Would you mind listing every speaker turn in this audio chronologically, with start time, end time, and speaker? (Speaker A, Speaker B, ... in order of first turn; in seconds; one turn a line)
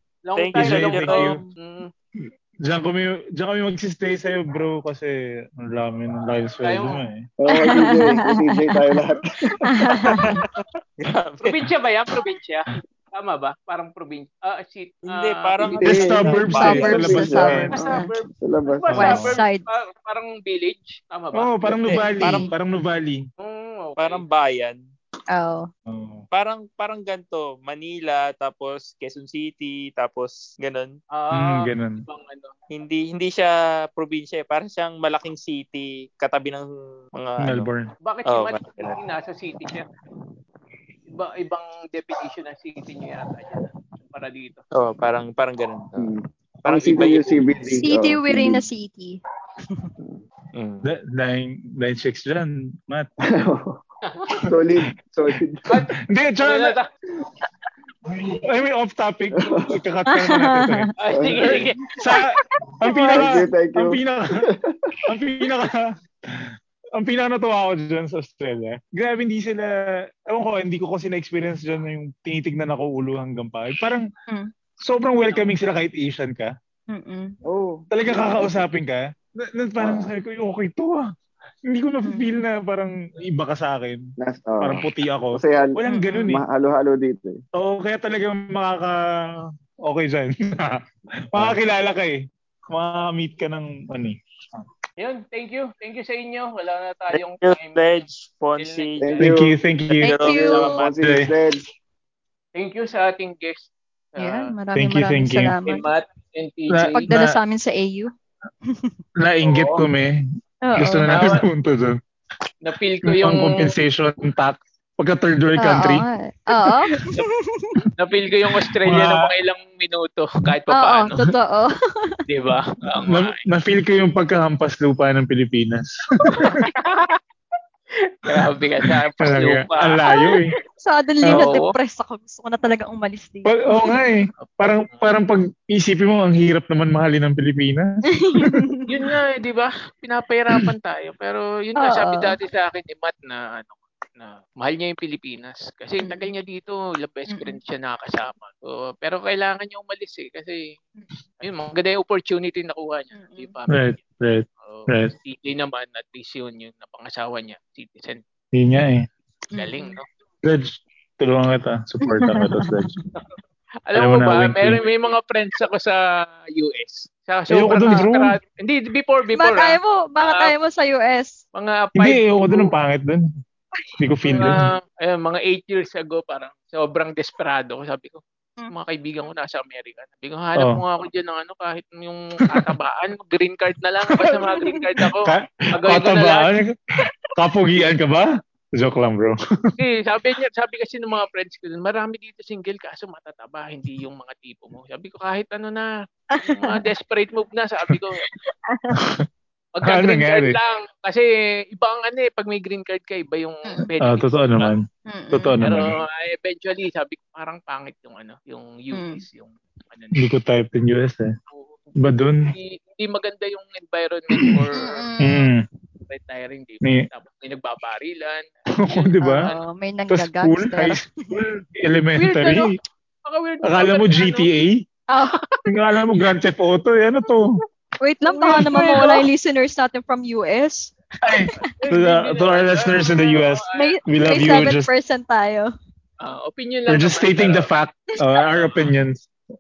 Speaker A: 0.2-1.9
Speaker B: 0.4-1.3
Speaker C: 0.6-1.4
Speaker D: 1.2-1.6
Speaker C: 2.6-7.3
Speaker A: 6.6-7.0
Speaker E: 7.4-9.9
Speaker D: 7.5-8.6
Speaker D: 9.7-10.4
Speaker B: 10.1-11.7
Speaker A: 11.4-15.6
Speaker B: 15.1-17.2
Speaker C: 15.7-17.9
Speaker E: 15.8-17.8
Speaker D: 16.5-18.1
Speaker A: 17.7-22.1
Speaker E: 18.3-19.2
Speaker C: 18.9-19.3
Speaker D: 18.9-19.7
Speaker C: 21.3-23.2
Speaker B: 22.0-22.5
Speaker A: 23.4-24.2
Speaker B: 24.0-24.8
Speaker D: 25.3-25.7
Speaker C: 25.9-26.2
Speaker B: 26.3-30.9
Speaker A: 31.1-32.5
Speaker C: 31.3-32.0
Speaker B: 32.7-37.7
Speaker C: 37.4-37.9
Speaker A: 38.0-39.9
Speaker B: 38.3-39.0
Speaker A: 41.1-44.6
Speaker B: 44.8-46.1
Speaker E: 46.0-48.6
Speaker B: 46.6-47.5
Speaker D: 47.8-49.2
Speaker B: 50.5-50.9
Speaker C: 50.8-53.1
Speaker E: 53.3-53.8
Speaker A: 54.0-54.4
Speaker E: 54.4-55.8
Speaker A: 55.7-56.9
Speaker C: 56.1-56.7
Speaker C: 58.1-64.4
Speaker E: 59.4-59.7
Speaker D: 60.1-60.9
Speaker A: 61.0-62.0
Speaker E: 61.1-61.6
Speaker D: 62.1-63.4
Speaker E: 63.1-65.0
Speaker C: 65.0-69.8
Speaker C: 70.3-74.1
Speaker C: 74.8-76.5
Speaker D: 76.9-77.4
Speaker E: 77.5-78.6
Speaker C: 77.9-81.0
Speaker E: 79.8-80.1
Speaker C: 81.7-84.1
Speaker D: 82.0-82.3
Speaker E: 84.2-87.4
Speaker C: 84.6-86.4
Speaker D: 85.9-86.3
Speaker C: 87.6-94.7
Speaker A: 95.0-97.8
Speaker B: 97.1-99.3
Speaker A: 98.6-99.3
Speaker E: 99.0-99.5
Speaker C: 99.2-100.2
Speaker B: 99.9-100.9
Speaker D: 100.0-100.8
Speaker E: 100.2-101.6
Speaker C: 101.0-101.3
Speaker A: 102.5-104.5
Speaker D: 104.2-105.9
Speaker C: 104.8-105.6
Speaker A: 105.7-107.1
Speaker C: 106.7-107.4
Speaker D: 106.9-108.1
Speaker D: 108.7-109.0
Speaker C: 109.2-110.2
Speaker A: 109.4-109.8
Speaker D: 110.7-111.3
Speaker C: 110.8-112.0
Speaker A: 111.1-111.5
Speaker A: 112.6-113.8
Speaker C: 113.1-116.0
Speaker D: 115.6-117.8
Speaker C: 116.6-117.0
Speaker A: 118.0-121.2
Speaker C: 118.7-119.3
Speaker D: 120.7-122.2
Speaker A: 122.3-123.4
Speaker C: 123.0-126.7
Speaker A: 126.4-127.2
Speaker A: 128.0-130.1
Speaker C: 128.3-130.5
Speaker D: 130.1-134.0
Speaker C: 131.3-131.6
Speaker A: 131.3-131.8
Speaker C: 133.5-137.9
Speaker A: 134.4-135.1
Speaker D: 138.1-138.8
Speaker A: 138.9-150.8
Speaker D: 141.8-142.4
Speaker D: 146.0-146.3
Speaker D: 147.3-147.6
Speaker A: 151.4-154.0
Speaker D: 153.1-153.6
Speaker C: 153.7-155.1
Speaker A: 154.6-158.2
Speaker C: 158.5-159.1
Speaker D: 159.5-160.0
Speaker A: 159.6-160.1
Speaker C: 160.4-163.0
Speaker D: 162.1-162.9
Speaker A: 163.2-170.5
Speaker C: 163.9-164.8
Speaker C: 167.5-168.4
Speaker D: 167.8-168.1
Speaker D: 169.3-171.4
Speaker A: 171.5-172.7
Speaker C: 172.0-173.3
Speaker D: 173.8-174.5
Speaker C: 174.0-174.6
Speaker A: 174.2-186.5
Speaker C: 184.2-186.8
Speaker D: 184.2-184.8
Speaker C: 187.4-189.7
Speaker A: 189.8-195.9
Speaker D: 196.3-196.9
Speaker A: 196.4-198.2
Speaker D: 198.2-199.0
Speaker C: 199.0-199.3
Speaker A: 199.8-204.7
Speaker C: 199.8-200.6
Speaker C: 204.0-205.9
Speaker D: 205.1-205.6
Speaker A: 205.6-210.3
Speaker D: 208.9-209.2
Speaker C: 210.2-211.3
Speaker A: 211.5-211.9
Speaker C: 212.0-212.5
Speaker A: 212.5-215.1
Speaker C: 214.3-214.7
Speaker D: 214.8-215.5
Speaker C: 215.2-215.6
Speaker A: 216.1-219.6
Speaker C: 218.9-219.5
Speaker D: 219.2-221.2
Speaker C: 220.1-222.7
Speaker A: 222.2-224.6
Speaker C: 223.6-224.8
Speaker D: 225.1-225.4
Speaker A: 225.4-225.7
Speaker C: 225.7-227.6
Speaker D: 228.0-230.9
Speaker A: 228.3-229.0
Speaker C: 228.4-229.2
Speaker C: 231.2-234.9
Speaker A: 231.6-234.7
Speaker D: 233.8-235.7
Speaker A: 236.2-237.7
Speaker C: 236.9-239.3
Speaker A: 238.4-238.8